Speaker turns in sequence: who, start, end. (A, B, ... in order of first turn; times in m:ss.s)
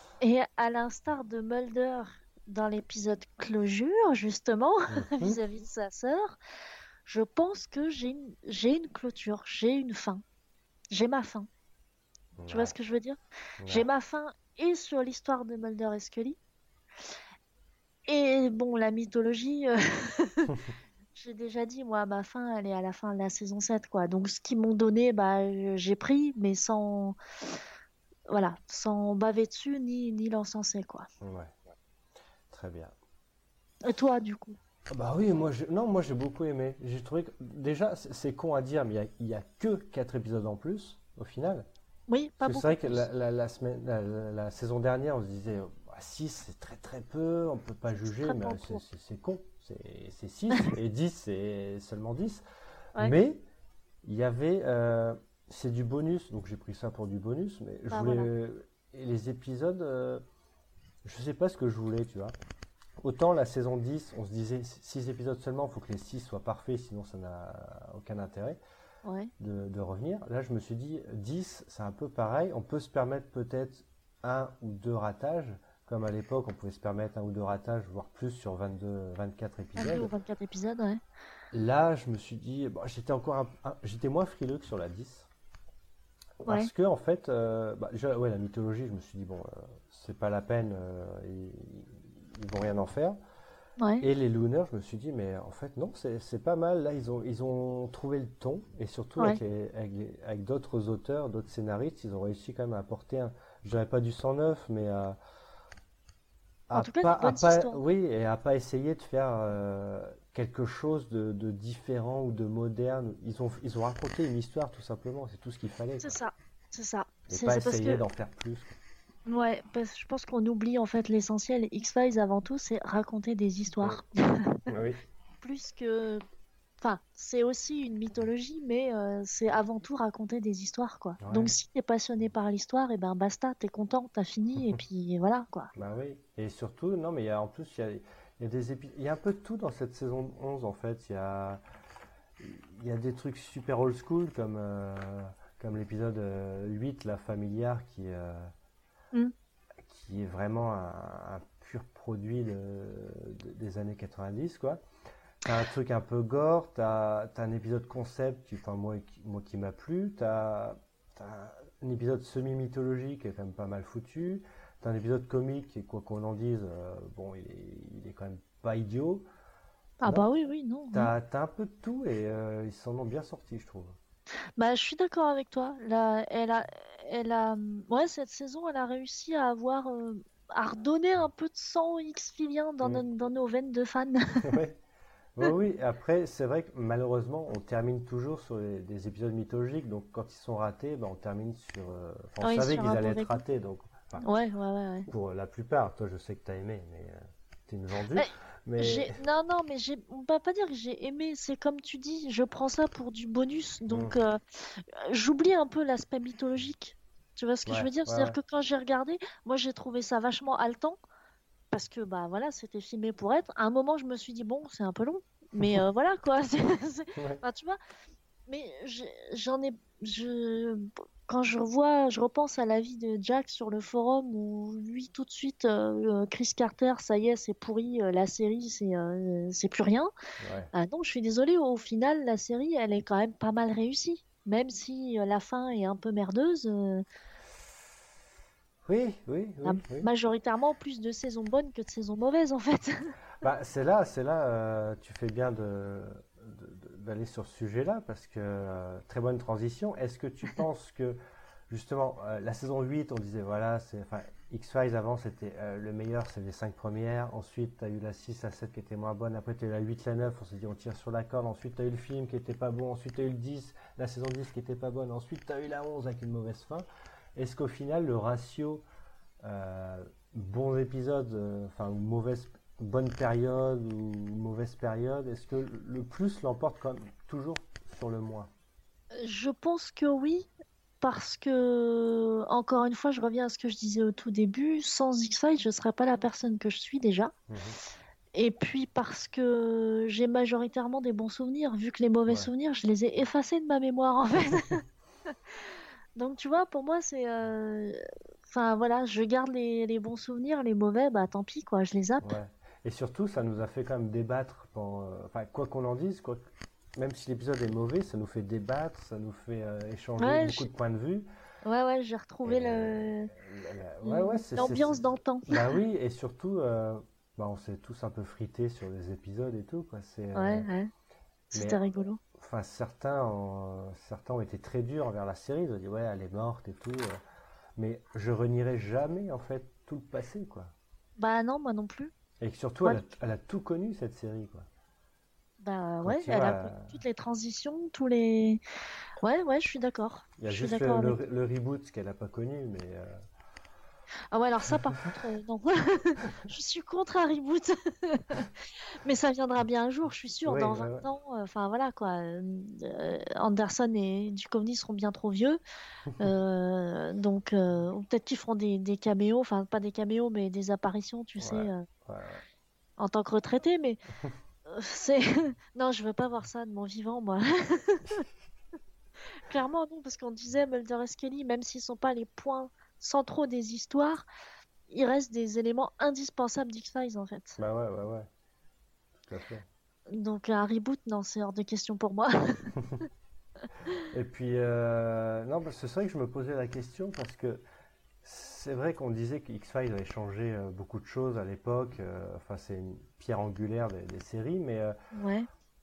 0:00.2-0:06.4 A
0:04.9-0:05.4 B
0:07.0-0:10.2 A
0:10.9-0:11.5 A
0:12.4-0:12.7 B
0:12.5-0:16.4 A
0:13.6-0:13.9 B
0:18.1-0:20.6 A
0:21.1-0:27.2 A
0:28.3-0:31.1 A
0:31.2-0:31.5 B
0:32.5-0:32.9 B
0:33.8-0:34.6 A
0:34.9-0:41.7 B
0:42.1-0:43.0 A
0:42.4-0:52.4 B
0:48.0-0:48.8 A
0:53.0-0:53.4 B
0:54.0-1:00.2 B
0:57.9-0:58.3 A
1:01.0-1:02.3 B
1:03.0-1:08.6 B
1:09.0-1:09.3 A
1:09.4-1:20.1 B
1:19.8-1:21.0 A
1:21.5-1:25.3 B
1:26.4-1:33.2 B
1:33.8-1:34.1 A
1:34.0-1:45.2 B
1:46.7-1:56.2 B
1:46.7-1:47.8 A
1:56.0-1:58.0 A
1:57.3-1:58.7 B
1:59.3-2:04.7 A
2:04.7-2:05.0 B
2:05.4-2:06.2 A
2:06.8-2:15.7 A
2:11.2-2:11.5 B
2:15.7-2:21.6 B
2:22.4-2:28.5 B
2:29.8-2:34.8 B
2:35.4-2:49.2 B
2:50.0-2:51.1 A
2:50.0-2:50.3 B
2:50.9-2:54.0 B
2:54.6-3:04.5 A
3:04.4-3:04.8 B
3:05.4-3:14.2 B
3:12.4-3:13.4 A
3:14.2-3:15.1 A
3:15.1-3:19.2 B
3:18.1-3:31.0 A
3:23.9-3:24.2 B
3:27.6-3:28.4 B
3:31.7-3:37.8 A
3:37.2-3:37.4 B
3:38.5-3:50.1 A
3:50.4-3:50.7 B
3:50.7-3:57.0 A
3:58.8-4:00.1 B
3:59.6-4:03.1 A
4:03.4-4:11.2 B
4:11.7-4:28.8 B
4:29.4-4:38.5 B
4:39.1-4:40.5 A
4:41.0-4:47.3 A
4:47.5-4:47.8 B
4:48.3-5:02.3 A
5:02.2-5:06.4 B
5:07.0-5:11.3 B
5:10.2-5:10.7 A
5:11.6-5:13.3 A
5:12.4-5:20.7 B
5:14.0-5:15.6 A
5:20.3-5:20.9 A
5:21.5-5:22.2 A
5:21.5-5:21.8 B
5:22.4-5:27.2 B
5:27.8-5:30.7 B
5:31.2-5:32.1 A
5:32.4-5:34.7 B
5:35.6-5:38.6 A
5:36.0-5:37.0 B
5:39.2-5:41.2 A
5:40.4-5:43.2 B
5:44.3-5:55.6 A
5:50.4-5:51.1 B
5:56.2-6:01.8 A
6:01.4-6:02.4 B
6:03.0-6:04.0 A
6:04.7-6:08.2 A
6:09.4-6:14.2 A
6:14.9-6:17.6 A
6:17.6-6:18.3 B
6:19.3-6:19.6 B
6:20.1-6:22.7 A
6:24.1-6:27.6 B
6:28.2-6:34.9 B
6:35.1-6:35.5 A